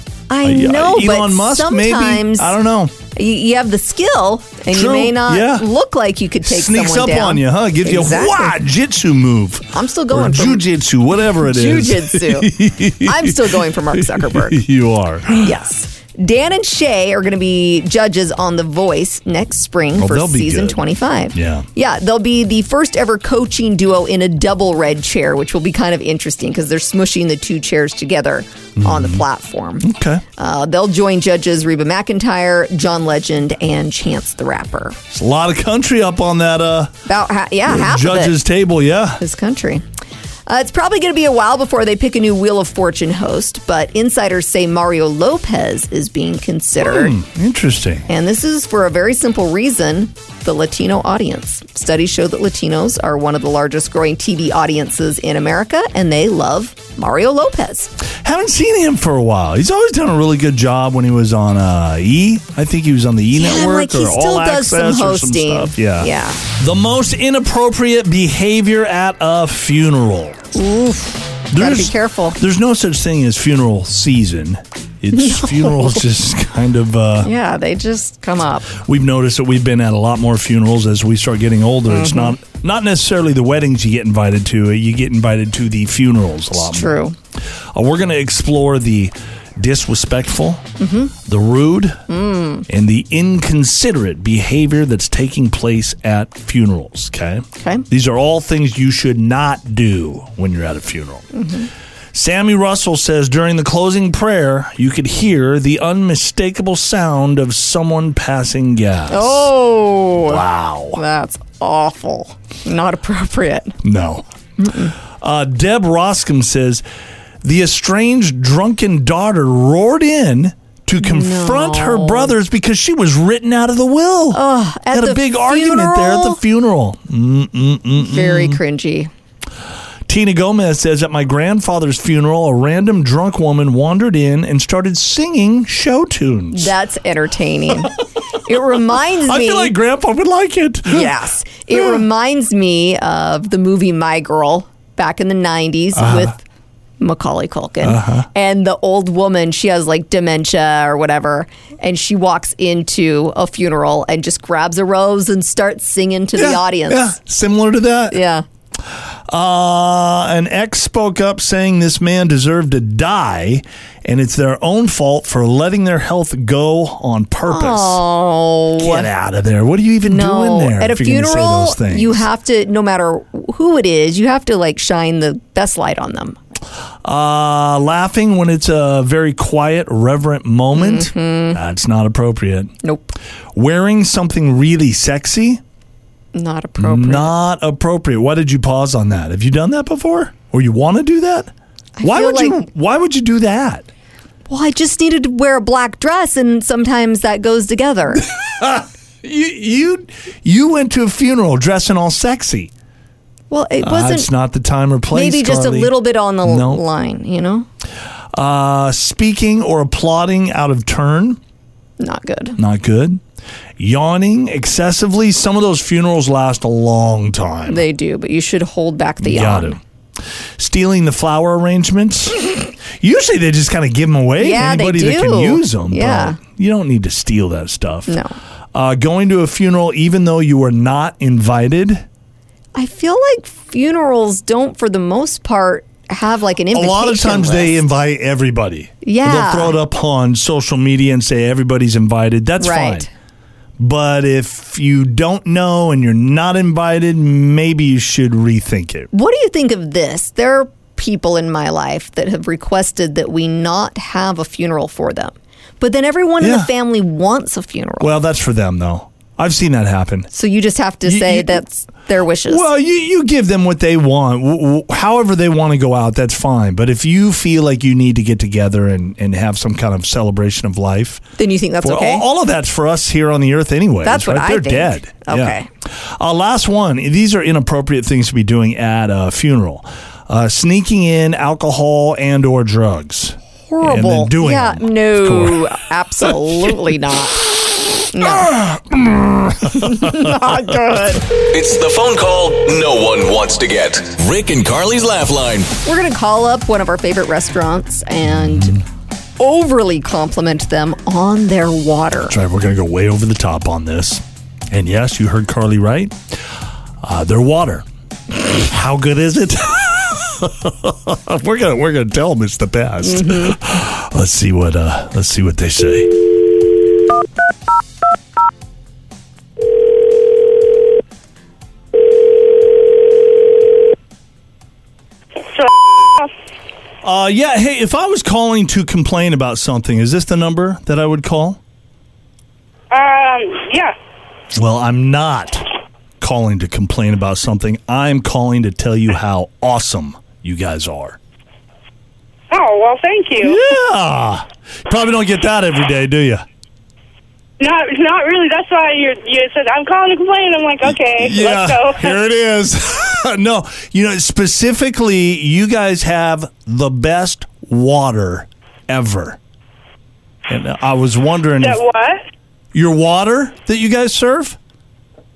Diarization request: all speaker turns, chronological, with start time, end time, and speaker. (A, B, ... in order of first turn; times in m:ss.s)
0:00.3-0:02.6 A
0:00.4-0:03.0 B
0:03.1-0:08.6 A
0:04.7-0:05.7 B
0:06.4-0:15.6 B
0:09.7-0:10.6 A
0:11.4-0:14.6 A
0:15.4-0:35.0 A
0:20.0-0:20.8 B
0:21.3-0:21.7 B
0:28.8-0:29.2 B
0:29.8-0:30.2 B
0:35.1-0:37.0 B
0:37.1-0:38.4 A
0:37.7-0:39.2 B
0:39.2-0:39.8 A
0:40.5-0:47.2 A
0:46.8-0:48.1 B
0:48.1-0:57.9 A
0:58.1-1:10.4 B
1:03.4-1:06.4 A
1:10.6-1:12.4 A
1:11.5-1:17.3 B
1:15.1-1:16.0 A
1:17.2-1:18.8 A
1:18.8-1:27.0 B
1:21.9-1:22.4 A
1:26.6-1:27.2 A
1:27.7-1:30.7 B
1:30.8-1:31.1 A
1:31.2-1:32.0 B
1:32.1-1:32.7 A
1:32.7-1:41.3 B
1:37.6-1:37.8 A
1:41.3-1:41.7 A
1:42.1-1:49.5 B
1:49.1-1:50.4 A
1:50.2-1:51.0 B
1:50.9-1:53.8 A
1:53.8-1:54.2 B
1:54.6-1:54.9 A
1:55.0-1:56.8 B
1:57.4-2:04.4 B
2:01.0-2:02.3 A
2:04.3-2:06.4 A
2:04.9-2:08.6 B
2:08.0-2:09.1 A
2:10.1-2:16.8 B
2:16.5-2:19.7 A
2:19.1-2:21.1 B
2:20.9-2:26.4 A
2:26.0-2:26.3 B
2:27.0-2:37.2 A
2:27.8-2:28.3 B
2:36.4-2:38.2 B
2:38.1-2:38.4 A
2:38.9-2:48.0 B
2:47.5-2:49.1 A
2:48.8-2:52.2 B
2:50.1-2:56.4 A
2:57.0-3:02.7 B
3:00.7-3:01.6 A
3:02.8-3:03.1 A
3:03.5-3:05.6 B
3:06.3-3:07.4 A
3:06.8-3:13.9 B
3:12.0-3:12.7 A
3:14.5-3:18.3 A
3:18.6-3:22.7 B
3:23.5-3:24.3 A
3:23.8-3:26.8 B
3:25.1-3:27.7 A
3:28.3-3:31.4 B
3:32.0-3:32.6 A
3:32.6-3:33.2 B
3:33.8-3:37.9 B
3:37.7-3:39.8 A
3:39.2-3:39.8 B
3:40.6-3:48.2 B
3:44.4-3:46.4 A
3:48.1-3:48.4 A
3:48.7-3:52.0 B
3:52.8-3:57.8 A
3:56.7-4:03.1 B
3:59.0-3:59.8 A
4:02.6-4:03.1 A
4:03.8-4:09.1 B
4:09.1-4:18.2 A
4:16.4-4:16.7 B
4:18.0-4:20.3 B
4:20.3-4:22.7 A
4:21.0-4:21.6 B
4:22.5-4:31.2 B
4:31.4-4:32.3 A
4:31.8-4:45.7 B
4:34.0-4:35.7 A
4:43.7-4:47.4 A
4:48.1-4:48.6 A
4:48.2-4:50.7 B
4:49.7-4:51.3 A
4:51.5-4:55.7 C
4:55.8-4:58.8 A
4:58.2-4:58.8 B
4:59.4-5:02.4 A
5:02.3-5:06.4 B
5:07.0-5:16.2 B
5:13.0-5:13.6 A
5:25.5-5:26.3 D
5:27.0-5:31.6 B
5:32.9-5:33.9 D
5:34.5-5:35.6 B
5:36.2-5:41.2 B
5:42.5-5:43.6 D
5:43.4-5:46.4 B
5:47.6-5:52.2 D
5:50.9-5:59.4 B
6:00.5-6:01.8 B
6:01.6-6:02.2 D
6:02.7-6:04.6 B